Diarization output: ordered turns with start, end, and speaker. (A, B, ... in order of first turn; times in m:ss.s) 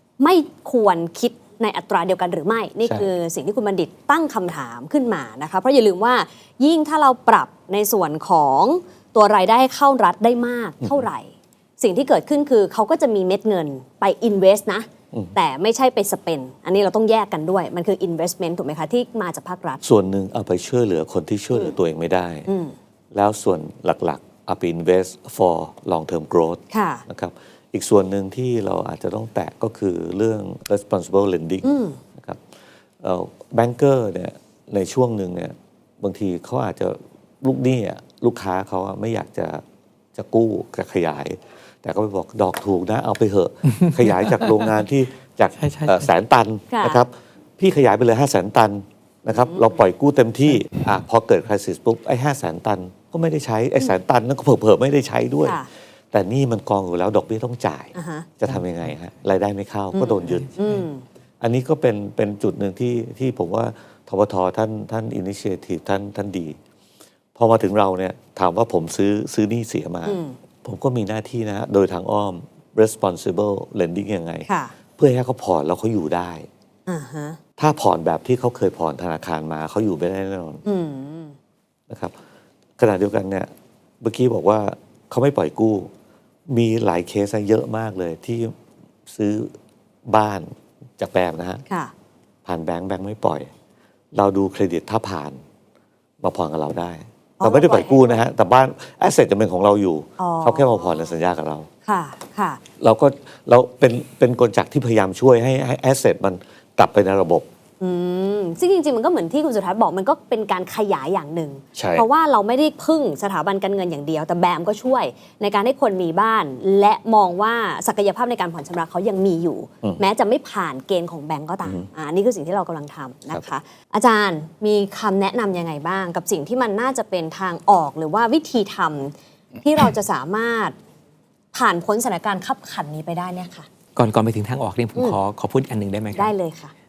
0:00.2-0:19.8 A
0:10.8-0:11.1 B
0:19.8-0:22.5 B
0:22.5-0:22.7 A
0:23.1-0:32.4 B
0:26.7-0:27.0 A
0:31.6-0:32.0 A
0:33.0-0:39.6 B
0:40.1-1:00.6 B
0:43.7-0:44.5 C
0:45.6-0:46.1 C
0:46.7-0:47.0 A
0:49.3-0:49.8 A
0:55.4-0:55.7 A
0:57.9-0:58.3 A
0:59.9-1:01.0 A
1:01.4-1:06.6 B
1:07.4-1:16.5 B
1:10.0-1:10.4 A
1:14.5-1:14.7 A
1:16.9-1:17.4 A
1:17.6-1:20.6 B
1:20.6-1:21.3 A
1:21.9-1:22.1 B
1:22.8-1:25.9 B
1:26.5-1:28.5 B
1:29.1-1:29.5 B
1:30.0-1:31.6 B
1:31.7-1:31.9 A
1:32.4-1:33.5 B
1:34.1-1:35.4 B
1:36.2-1:41.7 B
1:37.4-1:38.2 A
1:40.2-1:41.1 A
1:41.8-1:42.6 A
1:42.8-1:47.5 B
1:47.8-2:10.7 A
1:51.7-1:52.0 B
2:11.5-2:13.7 A
2:14.0-2:16.3 C
2:16.1-2:16.7 A